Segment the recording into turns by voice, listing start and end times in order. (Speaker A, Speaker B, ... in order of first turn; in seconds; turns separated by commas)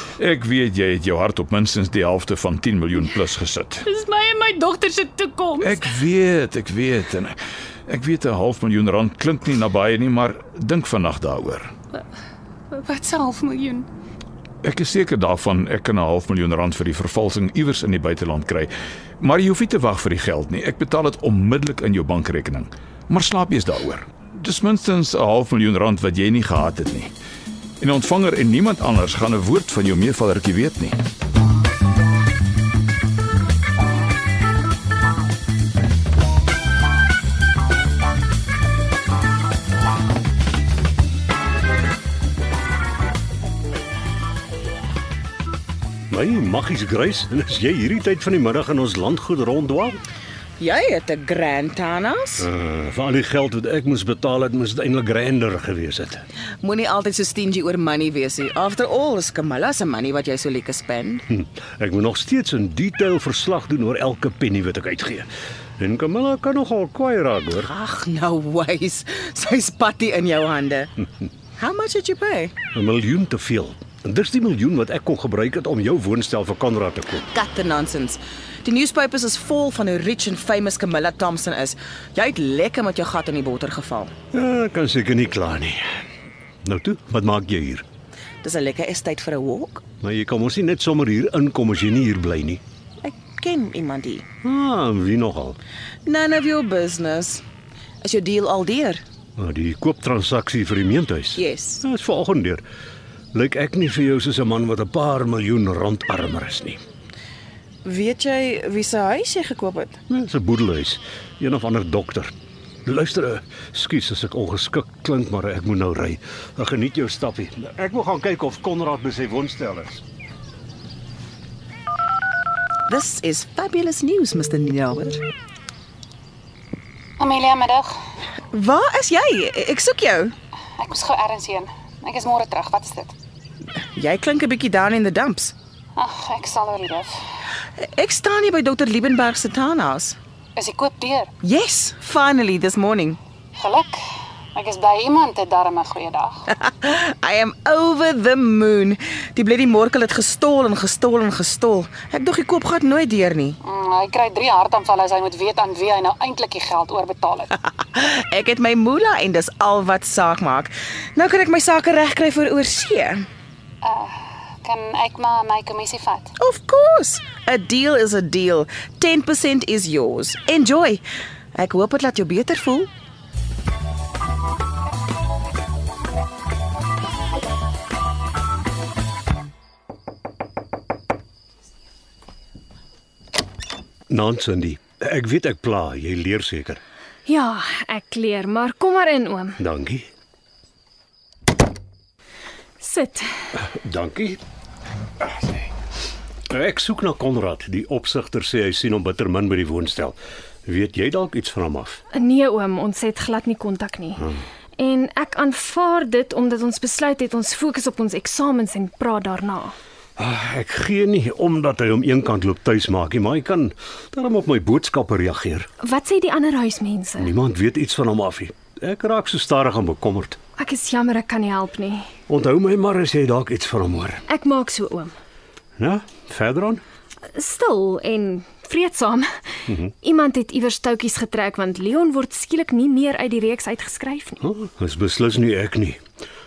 Speaker A: 0.2-3.9, Speaker B: 3.8-5.9, Speaker A: 5.6-11.7, Speaker B: 12.7-13.9, Speaker A: 14.6-27.1, Speaker A: 27.8-31.0, Speaker C: 46.1-50.0, Speaker D: 50.6-52.5, Speaker C: 52.4-56.2, Speaker D: 56.6-61.2, Speaker C: 61.3-67.7, Speaker D: 67.6-70.9, Speaker D: 71.6-72.5, Speaker C: 72.7-77.2, Speaker D: 77.2-84.1, Speaker C: 84.3-85.9, Speaker C: 86.6-87.8, Speaker D: 88.4-89.8, Speaker C: 90.0-92.6, Speaker D: 93.0-94.3, Speaker C: 94.4-95.6, Speaker D: 96.0-97.4, Speaker D: 98.0-99.0, Speaker C: 99.4-102.6, Speaker D: 101.3-101.8, Speaker C: 103.3-106.8, Speaker D: 107.8-110.0, Speaker C: 110.1-112.3, Speaker C: 112.8-120.0, Speaker D: 122.9-125.2, Speaker B: 127.2-127.9, Speaker D: 128.5-130.3, Speaker B: 130.8-133.1, Speaker D: 133.9-135.5, Speaker B: 136.0-137.1, Speaker D: 137.8-140.2, Speaker B: 140.6-141.3, Speaker D: 141.4-143.2, Speaker B: 143.6-144.0, Speaker B: 144.5-146.4, Speaker D: 146.5-153.6, Speaker B: 153.6-157.5, Speaker D: 157.7-163.3, Speaker B: 163.8-166.3, Speaker D: 166.4-171.0, Speaker D: 171.5-172.9, Speaker C: 184.1-186.8, Speaker E: 187.3-189.6, Speaker C: 189.6-190.1, Speaker E: 192.8-193.3, Speaker C: 193.6-194.4, Speaker C: 195.2-195.6, Speaker C: 196.5-202.0, Speaker E: 202.1-209.7, Speaker C: 210.2-215.7, Speaker E: 215.8-217.3, Speaker C: 217.2-220.4, Speaker E: 220.6-222.1, Speaker C: 222.3-224.2, Speaker E: 224.3-225.1, Speaker C: 225.8-226.8, Speaker E: 227.3-229.3, Speaker E: 230.0-234.4, Speaker C: 234.4-236.0